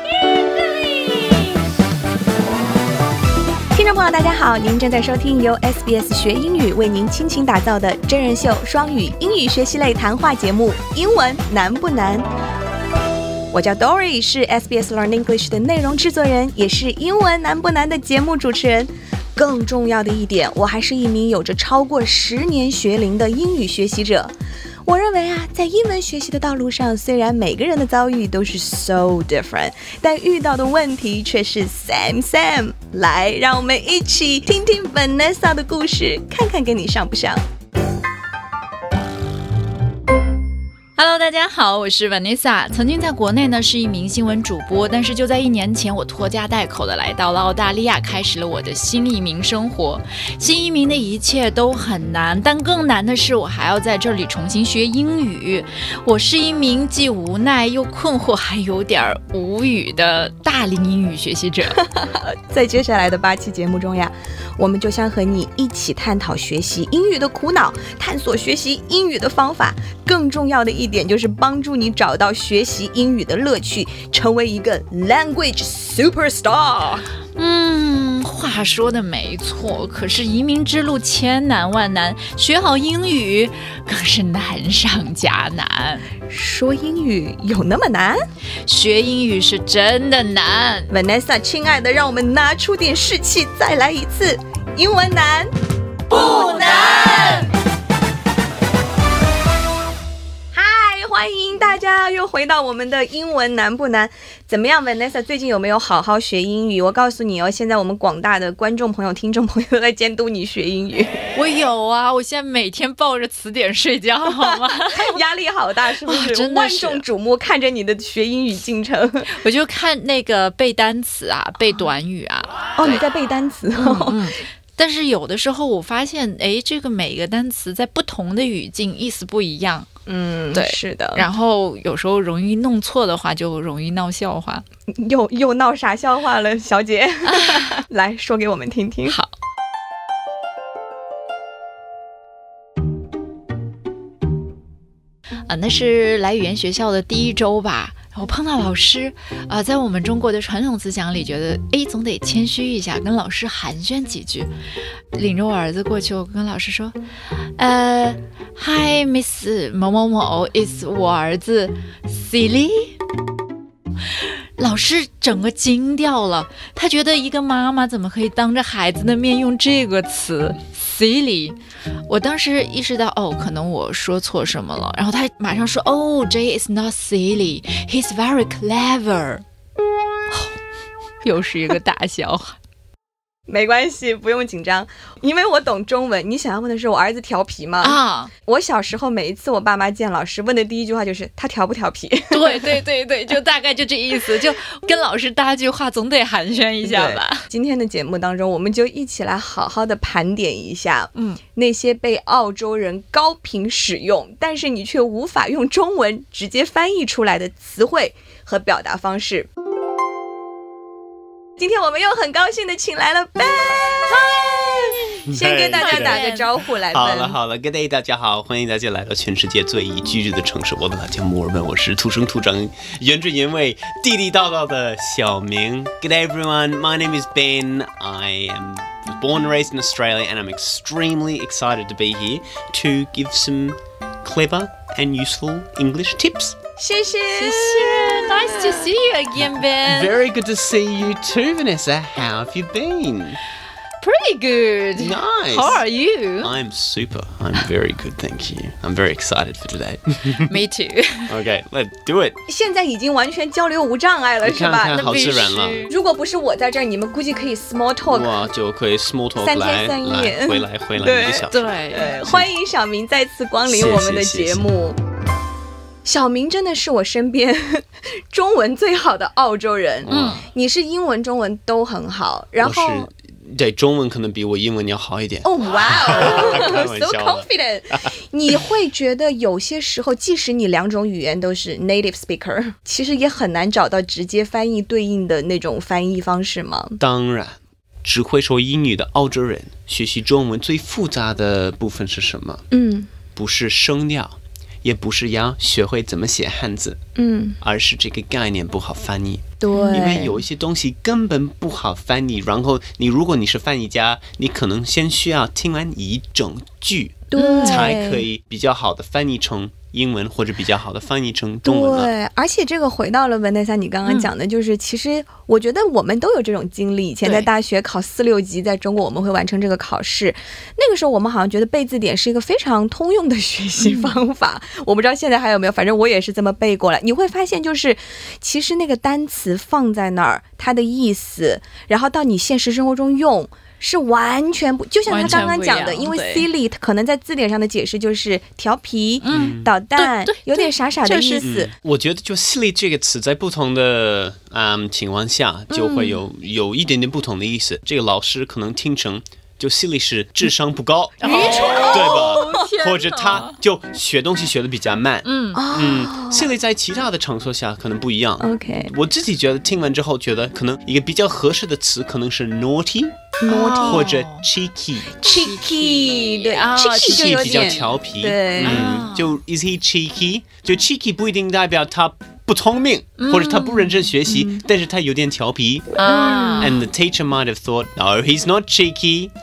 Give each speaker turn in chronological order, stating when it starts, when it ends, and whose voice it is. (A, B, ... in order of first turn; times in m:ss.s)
0:03.7-0:12.3 A
0:13.5-0:24.3 A
0:24.8-0:37.4 A
0:41.0-1:01.8 B
1:01.8-1:17.1 A
1:17.4-1:26.1 B
1:26.3-1:28.2 A
1:28.7-1:30.9 B
1:30.9-1:35.5 A
1:36.1-1:37.5 A
1:36.1-1:37.5 B
1:40.5-1:51.2 A
1:51.3-1:55.2 B
1:54.3-1:59.3 A
1:56.0-1:57.0 B
1:59.3-2:03.0 B
2:02.8-2:04.2 A
2:03.8-2:09.9 B
2:10.1-2:11.2 A
2:10.5-2:14.6 B
2:14.9-2:19.2 A
2:17.3-2:17.8 B
2:19.0-2:19.3 B
2:25.5-2:34.5 B
2:35.1-2:43.0 B
2:44.1-2:59.4 B
3:01.2-3:02.6 B
3:03.5-3:12.7 A
3:07.8-3:08.3 B
3:12.3-3:17.5 B
3:16.8-3:29.5 A
3:31.6-3:37.4 A
3:35.3-3:36.2 C
3:35.7-3:36.5 B
3:36.9-3:56.6 C
3:56.8-3:58.9 A
3:57.3-4:00.2 B
3:59.8-4:03.4 C
4:04.0-4:06.5 B
4:05.0-4:05.8 C
4:06.4-4:10.6 C
4:10.4-4:11.4 B
4:11.3-4:12.4 C
4:12.5-4:15.0 A
4:14.4-4:15.8 C
4:14.9-4:15.9 B
4:15.8-4:18.4 A
4:18.1-4:22.5 C
4:19.4-4:25.0 A
4:21.5-4:22.1 B
4:23.7-4:24.6 C
4:26.0-4:33.1 A
4:30.0-4:30.4 C
4:30.1-4:30.4 B
4:32.6-4:37.5 C
4:35.4-4:47.0 A
4:47.0-4:52.6 C
4:52.7-4:53.1 A
4:53.3-4:57.0 C
4:57.2-4:57.6 A
4:57.6-5:12.1 C
4:59.6-5:00.4 A
4:59.7-5:00.1 B
5:07.3-5:08.2 A
5:07.4-5:07.9 B
5:11.6-5:41.7 A
5:17.2-5:17.5 B
5:23.8-5:24.2 B
5:35.1-5:36.5 B
5:35.2-5:35.4 C
5:39.2-5:41.5 B
5:39.3-5:39.7 C
5:41.4-6:03.2 C
5:45.7-5:46.2 A
5:51.2-5:53.6 B
5:51.2-5:52.7 A
5:55.2-5:55.6 B
5:55.5-5:56.5 A
5:58.4-5:58.9 A
6:03.4-6:04.1 A
6:03.5-6:04.5 B
6:03.8-6:05.2 C
6:05.2-6:08.8 A
6:05.2-6:07.9 B
6:07.0-6:16.0 C
6:08.6-6:09.4 B
6:13.2-6:14.1 B
6:14.2-6:14.6 A
6:16.0-6:16.8 B
6:16.0-6:16.8 A
6:16.6-6:19.3 C